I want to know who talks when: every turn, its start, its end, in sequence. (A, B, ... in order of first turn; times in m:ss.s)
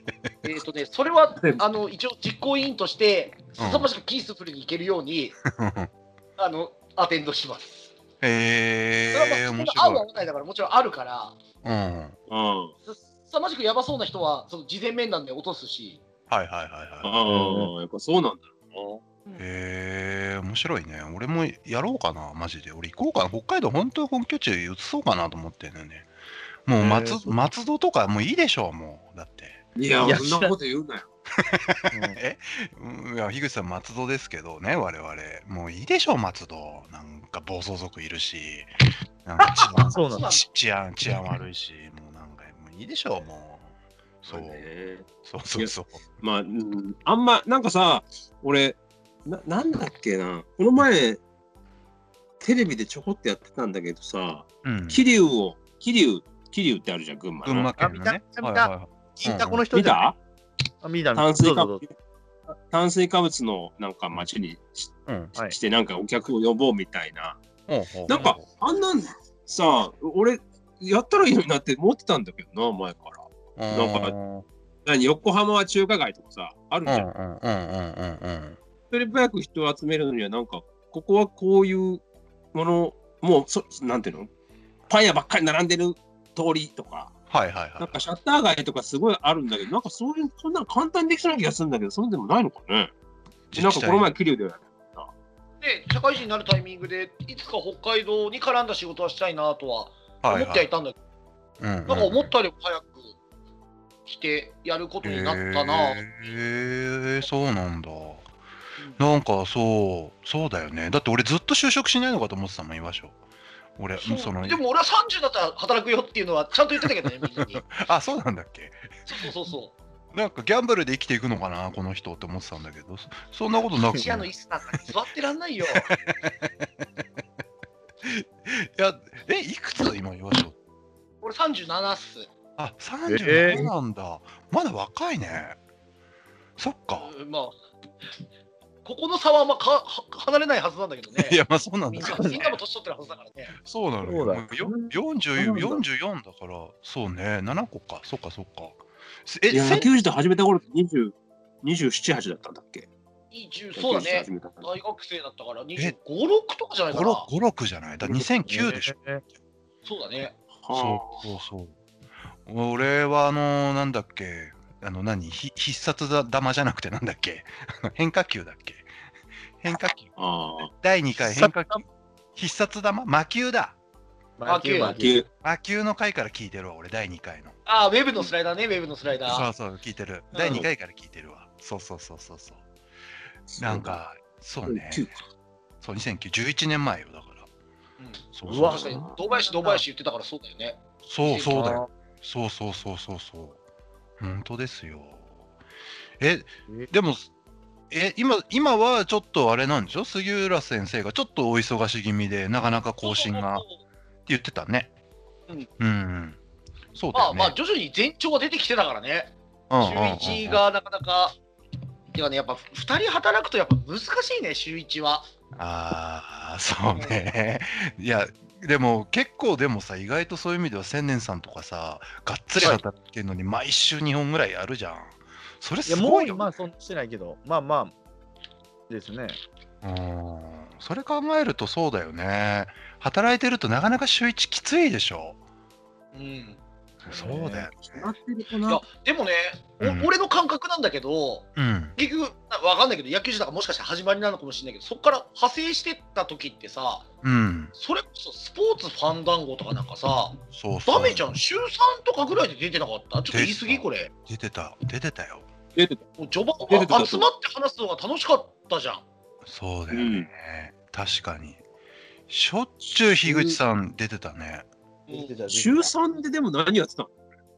0:00.4-0:05.4 A
0:03.6-0:03.9 B
0:05.6-0:05.9 B
0:06.4-0:07.9 A
0:08.2-0:10.0 B
0:09.1-0:11.4 A
0:11.6-0:12.2 B
0:12.3-0:12.7 C
0:12.9-0:16.0 A
0:16.3-0:17.2 B
0:17.0-0:19.0 C
0:17.3-0:17.7 D
0:19.4-0:26.1 B
0:26.7-0:29.6 B
0:26.8-0:27.4 D
0:29.8-0:31.1 C
0:30.0-0:30.5 D
0:31.5-0:38.7 B
0:31.9-0:32.2 D
0:39.2-0:43.7 B
0:39.8-0:40.3 D
0:40.0-0:40.5 A
0:44.2-0:44.7 B
0:44.3-0:51.2 C
0:45.2-0:46.0 B
0:52.4-0:57.7 C
0:54.6-0:55.0 B
0:57.4-0:59.6 B
0:57.8-1:00.1 D
0:59.7-1:00.2 C
1:00.8-1:01.8 D
1:01.2-1:01.9 C
1:02.5-1:07.4 C
1:05.1-1:05.3 B
1:07.7-1:08.4 B
1:08.1-1:14.2 C
1:08.1-1:08.4 D
1:13.6-1:14.5 B
1:14.8-1:17.1 C
1:16.9-1:18.6 B
1:18.9-1:22.0 C
1:22.5-1:24.3 C
1:24.9-1:27.2 C
1:27.3-1:28.0 B
1:27.8-1:32.9 C
1:33.5-1:34.1 B
1:33.6-1:35.1 C
1:35.6-1:41.0 A
1:40.2-1:40.7 B
1:41.6-1:42.3 B
1:41.9-1:43.1 A
1:44.1-1:46.1 A
1:45.0-1:48.3 B
1:49.0-1:53.2 B
1:53.8-1:54.6 B
1:54.0-1:57.6 A
1:57.6-1:58.9 B
1:59.1-1:59.8 A
2:00.1-2:04.3 B
2:03.9-2:05.9 A
2:05.7-2:06.5 B
2:08.0-2:10.6 B
2:11.2-2:12.3 A
2:12.6-2:15.6 B
2:13.1-2:13.7 D
2:16.6-2:17.1 B
2:16.9-2:17.6 A
2:18.8-2:21.4 A
2:21.2-2:22.5 B
2:21.9-2:23.5 A
2:22.0-2:22.5 D
2:23.6-2:29.9 B
2:24.0-2:25.8 D
2:29.5-2:32.9 C
2:33.3-2:37.3 A
2:33.8-2:34.7 C
2:36.9-2:38.9 B
2:38.5-2:39.2 D
2:39.8-2:40.4 A
2:40.6-2:41.2 C
2:40.7-2:41.8 B
2:42.4-2:48.9 B
2:49.6-2:50.1 B
2:50.2-2:50.7 C
2:50.7-2:51.8 B
2:52.4-2:53.8 B
2:54.4-2:55.2 D
2:54.5-2:55.0 A
2:54.8-2:55.3 C
2:55.4-2:57.6 B
2:57.7-2:59.5 A
2:59.3-3:02.6 B
3:00.3-3:00.6 A
3:00.4-3:00.7 C
3:03.5-3:04.0 C
3:03.6-3:05.1 B
3:04.7-3:05.2 C
3:05.8-3:07.5 B
3:08.0-3:11.6 A
3:08.4-3:09.0 B
3:08.5-3:09.8 D
3:08.6-3:09.2 C
3:11.1-3:13.6 B
3:11.5-3:11.9 D
3:14.2-3:15.3 B
3:16.2-3:17.3 B
3:17.9-3:23.6 B
3:23.0-3:23.8 A
3:24.3-3:24.9 B
3:25.8-3:26.4 B
3:26.9-3:27.5 B
3:27.1-3:31.4 A
3:29.7-3:30.6 B
3:32.1-3:35.3 A
3:35.6-3:46.5 B
3:36.9-3:37.2 A
3:45.9-3:47.9 D
3:48.9-3:49.4 D
3:49.8-3:55.4 B
3:56.1-3:56.6 A
3:57.1-3:57.7 D
3:57.1-3:57.8 B
3:57.8-3:58.8 C
3:58.7-4:07.1 A
3:59.8-4:00.1 B
4:01.6-4:02.0 B
4:07.2-4:07.7 B
4:07.7-4:14.1 A
4:10.5-4:11.3 B
4:13.3-4:15.5 B
4:15.8-4:16.0 C
4:16.2-4:19.0 A
4:16.7-4:17.3 C
4:19.5-4:21.6 B
4:19.9-4:20.3 C
4:22.3-4:24.7 B
4:23.2-4:23.6 C
4:25.1-4:25.4 A
4:25.1-4:25.9 D
4:25.5-4:27.1 C